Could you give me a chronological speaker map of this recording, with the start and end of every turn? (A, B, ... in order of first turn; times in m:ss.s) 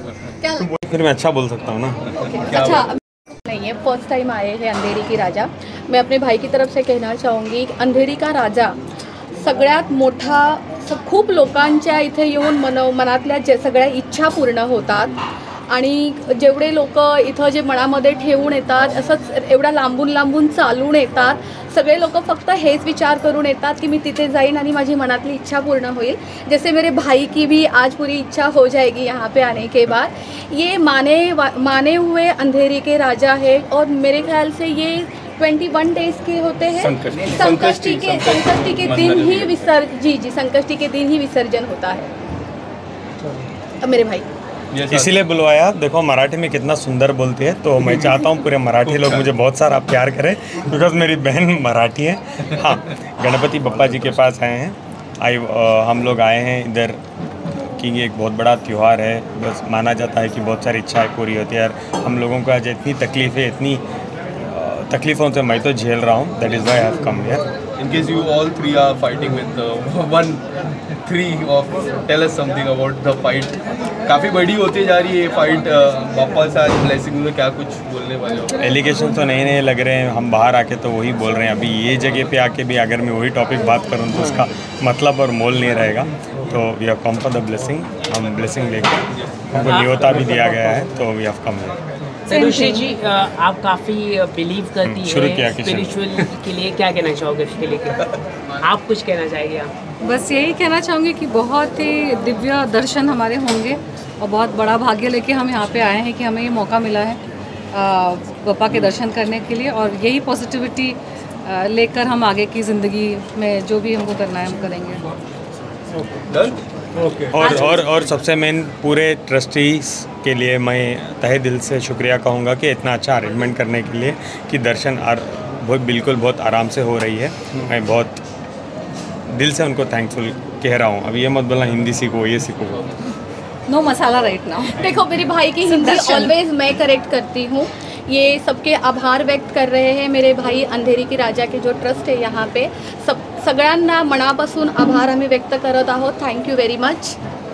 0:00.6-0:02.0 A
0:02.2-0:02.9 B
0:02.2-0:02.9 C
0:03.4-0:08.8 B
0:09.4-0:15.2 B
0:15.7-0:42.1 B
0:36.7-0:39.7 C
0:43.8-0:44.2 B
0:44.7-0:45.2 C
0:44.9-0:57.0 A
0:48.8-0:49.3 C
0:57.8-1:03.8 A
1:04.4-1:07.4 A
1:07.8-1:10.4 C
1:11.0-1:18.6 C
1:18.6-1:31.8 A
1:29.6-1:30.0 D
1:32.3-1:39.7 D
1:32.3-1:32.8 E
1:34.8-1:35.9 A
1:40.0-1:47.2 E
1:47.7-1:55.0 E
1:56.1-1:57.8 C
1:57.3-2:08.2 A
1:57.4-1:57.8 D
2:09.3-2:12.9 A
2:13.7-2:14.9 E
2:14.6-2:27.2 B
2:15.6-2:16.3 E